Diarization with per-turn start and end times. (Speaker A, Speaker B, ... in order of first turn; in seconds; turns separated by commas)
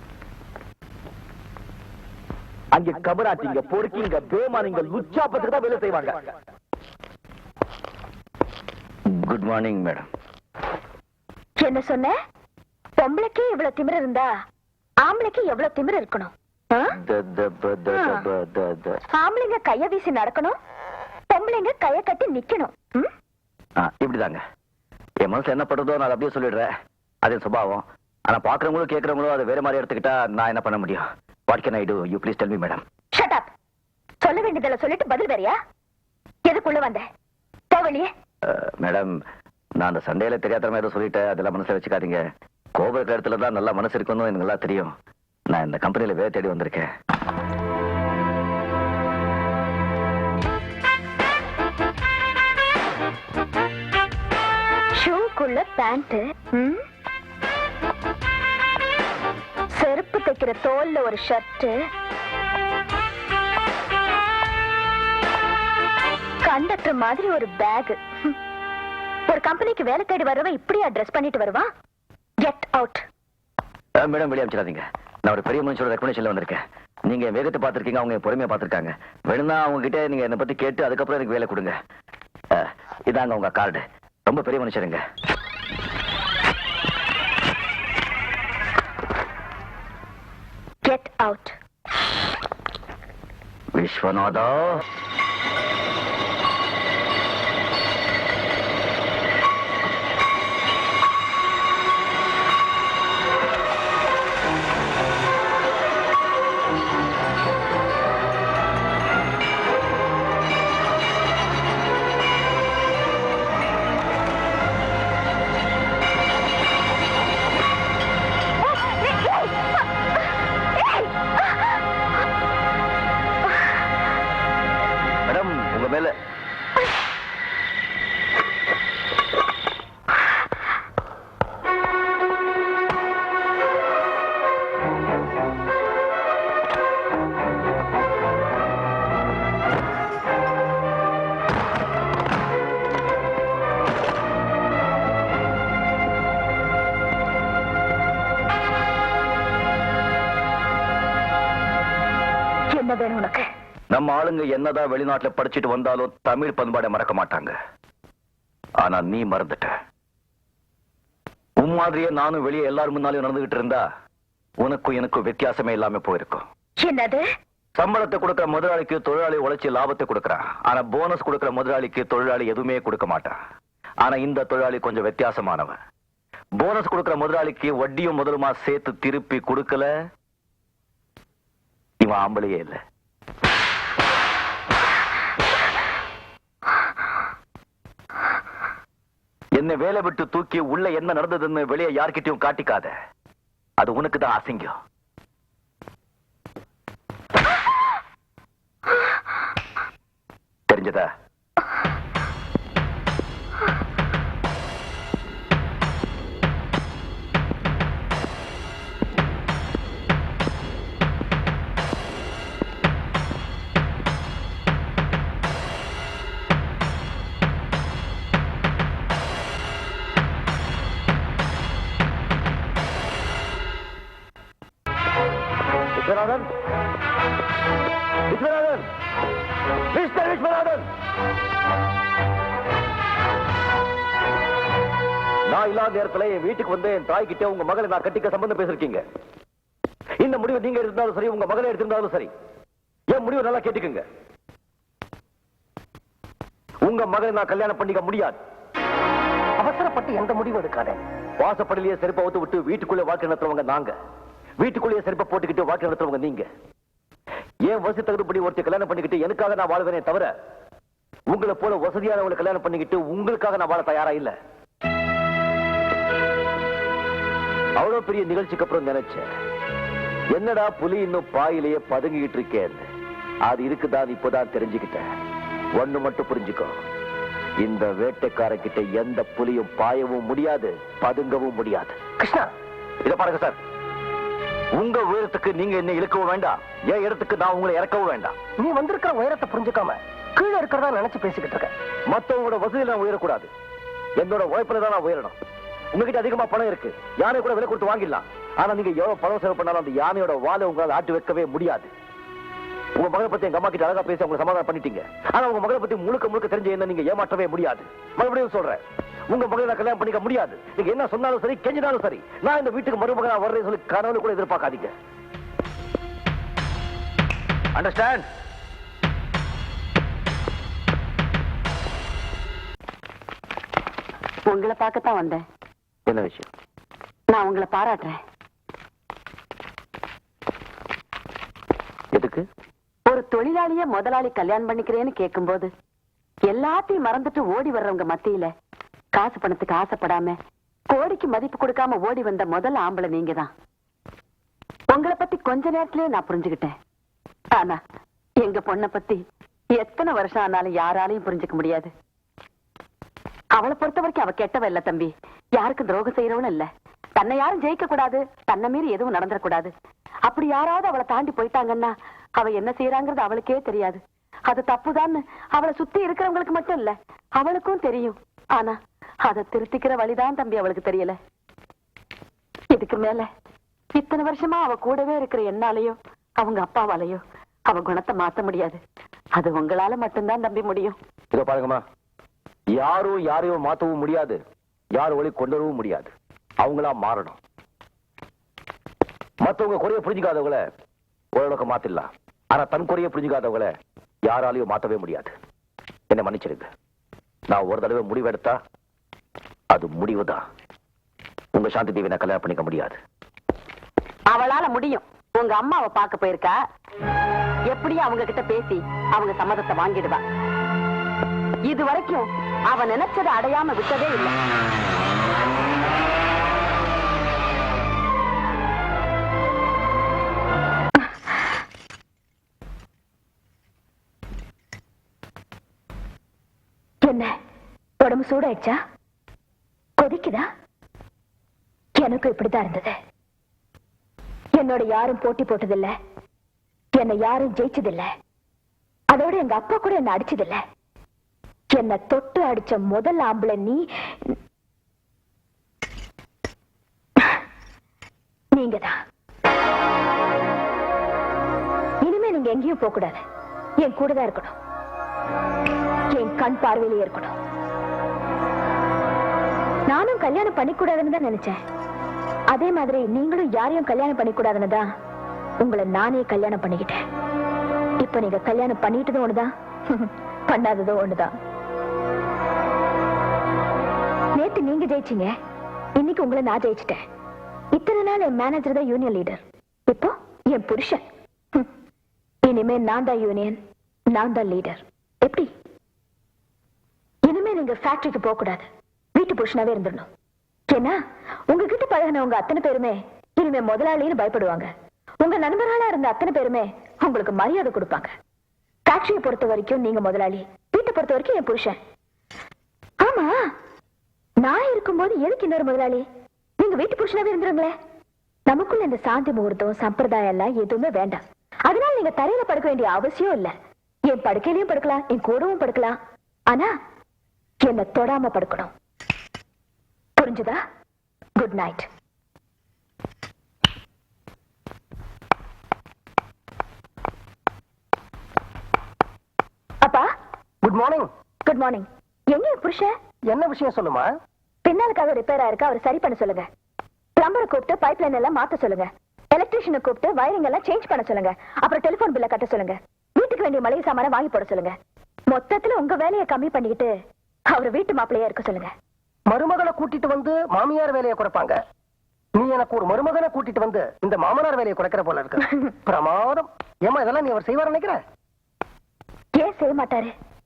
Speaker A: 2.7-6.3, Speaker A: 9.1-10.1, Speaker B: 11.6-12.1, Speaker B: 13.0-14.3, Speaker B: 15.0-16.9, Speaker A: 16.9-19.0, Speaker B: 19.1-20.6, Speaker B: 21.3-23.1, Speaker A: 23.8-24.4, Speaker A: 25.2-26.7, Speaker A: 27.2-32.8, Speaker B: 33.1-33.5, Speaker B: 34.2-35.6, Speaker B: 36.5-37.1, Speaker B: 37.7-38.1, Speaker A: 38.4-39.1, Speaker A: 39.8-42.2, Speaker A: 42.8-44.9, Speaker A: 45.5-46.9, Speaker B: 55.0-56.8, Speaker B: 59.7-61.8, Speaker B: 66.4-68.3, Speaker B: 69.3-71.7, Speaker B: 72.4-73.0, Speaker A: 74.0-81.7, Speaker A: 82.5-85.0, Speaker B: 90.8-91.6, Speaker A: 93.8-94.8, Speaker B: 119.1-119.5, Speaker A: 125.3-126.2, Speaker B: 152.7-153.5, Speaker A: 153.9-157.6, Speaker A: 158.8-159.8, Speaker A: 161.6-163.8, Speaker A: 164.6-166.4, Speaker B: 166.8-167.2, Speaker A: 167.8-173.3, Speaker A: 174.0-175.8, Speaker A: 176.6-179.9, Speaker A: 182.0-182.8, Speaker A: 189.6-192.9, Speaker A: 193.8-194.8, Speaker A: 200.7-201.1, Speaker A: 226.0-226.5, Speaker A: 228.3-228.9, Speaker A: 229.9-230.8, Speaker A: 235.5-239.0, Speaker A: 240.2-242.3, Speaker A: 243.1-244.1, Speaker A: 246.8-248.4, Speaker C: 249.6-251.0, Speaker A: 251.4-253.9, Speaker A: 254.6-256.4, Speaker A: 257.6-260.3, Speaker A: 261.3-264.4, Speaker A: 267.8-269.2, Speaker A: 270.3-272.9, Speaker A: 273.5-275.1, Speaker A: 275.8-276.8, Speaker A: 277.6-281.9, Speaker C: 282.2-282.5, Speaker A: 283.0-283.6, Speaker A: 284.8-288.4, Speaker C: 288.6-291.7, Speaker A: 292.1-293.5, Speaker A: 294.2-295.4, Speaker A: 295.9-301.9, Speaker A: 303.0-314.9, Speaker A: 317.8-318.2, Speaker D: 324.5-325.4, Speaker A: 326.1-326.5, Speaker D: 327.3-328.2, Speaker A: 332.1-332.4, Speaker D: 333.1-335.7, Speaker D: 336.5-338.5, Speaker D: 339.1-340.4, Speaker D: 340.9-343.5, Speaker D: 344.9-346.7, Speaker D: 348.4-349.2, Speaker D: 349.8-351.9, Speaker D: 353.6-359.7, Speaker D: 360.3-371.2, Speaker D: 372.7-373.3, Speaker D: 374.0-378.8, Speaker D: 379.4-381.0, Speaker A: 381.3-381.8, Speaker A: 382.7-384.4, Speaker A: 384.9-387.4, Speaker A: 389.4-390.6, Speaker A: 391.3-393.7, Speaker A: 394.3-395.4, Speaker A: 396.1-396.7, Speaker A: 397.5-398.6, Speaker A: 399.7-400.4, Speaker A: 401.5-403.0, Speaker D: 404.3-406.6, Speaker D: 407.7-410.2, Speaker D: 411.7-414.4, Speaker B: 427.1-427.3, Speaker B: 428.0-428.8, Speaker B: 430.0-430.4, Speaker B: 432.0-432.9, Speaker B: 434.6-435.9, Speaker B: 436.9-438.1, Speaker B: 439.1-440.6, Speaker B: 441.7-444.4, Speaker B: 448.5-448.9, Speaker B: 452.0-453.2, Speaker B: 453.8-454.6, Speaker B: 456.1-457.4, Speaker B: 459.9-461.6, Speaker B: 462.5-464.8, Speaker B: 465.6-467.0, Speaker B: 468.0-471.3, Speaker B: 474.4-475.3, Speaker B: 476.0-477.0, Speaker B: 477.7-481.0, Speaker B: 482.4-483.6, Speaker B: 484.1-485.5, Speaker B: 487.3-490.1, Speaker B: 490.7-491.0, Speaker B: 491.5-494.7, Speaker B: 495.2-498.1, Speaker B: 498.9-501.8, Speaker B: 503.0-503.4, Speaker B: 504.4-506.1, Speaker B: 506.6-507.7, Speaker B: 508.5-513.5, Speaker B: 514.1-516.0, Speaker B: 517.6-518.7, Speaker B: 520.2-520.6, Speaker B: 521.4-521.9, Speaker B: 529.8-530.1, Speaker C: 530.6-531.1, Speaker B: 531.4-532.9, Speaker C: 533.3-534.1, Speaker B: 534.6-536.5, Speaker B: 537.2-544.8, Speaker B: 545.3-546.9, Speaker B: 547.5-548.7, Speaker C: 549.3-551.6, Speaker C: 552.4-558.0, Speaker B: 559.4-560.1